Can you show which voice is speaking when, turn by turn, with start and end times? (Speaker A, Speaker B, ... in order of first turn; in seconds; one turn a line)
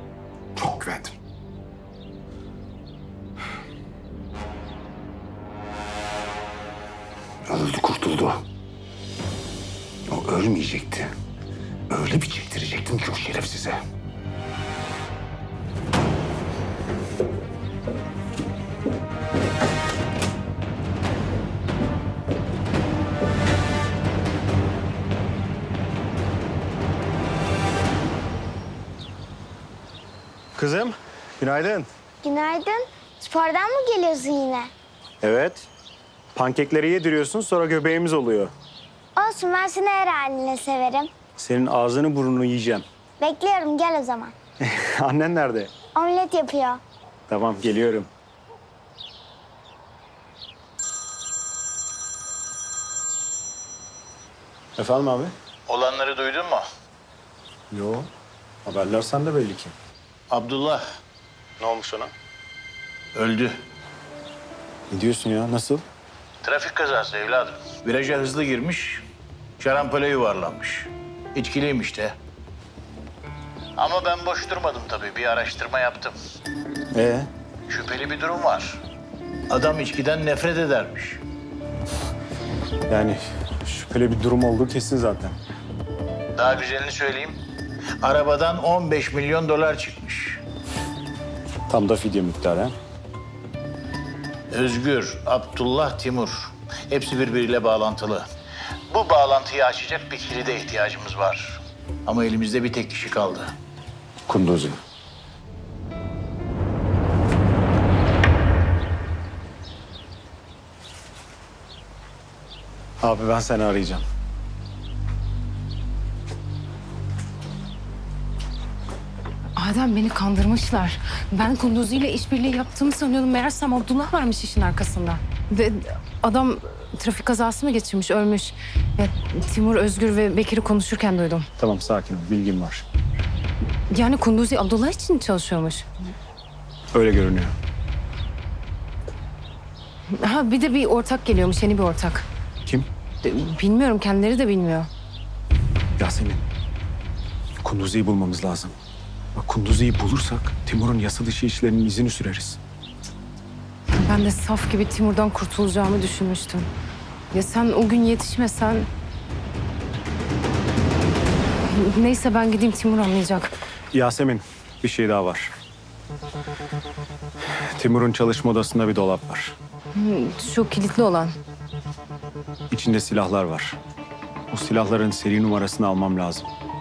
Speaker A: 0.6-1.1
Speaker A: 7.5-8.4
Speaker A: 10.1-11.1
Speaker A: 11.9-13.8
Speaker B: 30.6-31.9
Speaker C: 32.2-34.7
Speaker B: 35.2-35.7
Speaker B: 36.4-38.5
Speaker C: 39.2-41.1
Speaker B: 41.4-42.9
Speaker C: 43.2-44.3
Speaker B: 44.6-45.7
Speaker C: 46.0-46.8
Speaker B: 47.3-48.1
Speaker B: 54.8-55.3
Speaker D: 55.7-56.6
Speaker B: 57.7-58.1
Speaker B: 58.6-59.7
Speaker D: 60.3-60.8
Speaker B: 61.6-62.1
Speaker D: 63.1-63.5
Speaker B: 64.9-65.8
Speaker D: 66.4-69.0
Speaker D: 69.6-72.1
Speaker D: 73.8-76.2
Speaker B: 76.9-77.3
Speaker D: 77.7-78.8
Speaker D: 79.5-81.2
Speaker B: 82.9-85.4
Speaker D: 86.4-87.4
Speaker D: 88.0-90.4
Speaker B: 91.7-92.7
Speaker D: 94.5-98.2
Speaker D: 98.9-103.5
Speaker A: 104.3-104.8
Speaker B: 113.0-114.0
Speaker E: 119.6-131.5
Speaker B: 131.6-132.8
Speaker E: 133.9-135.9
Speaker B: 136.9-137.5
Speaker E: 140.2-142.2
Speaker E: 143.2-144.9
Speaker B: 146.0-146.4
Speaker B: 147.6-148.8
Speaker B: 149.4-152.6
Speaker E: 154.0-156.7
Speaker E: 157.3-158.9
Speaker E: 161.7-163.5
Speaker B: 163.9-165.5
Speaker B: 167.8-169.6
Speaker E: 169.9-171.3
Speaker B: 172.7-173.8
Speaker B: 174.5-176.5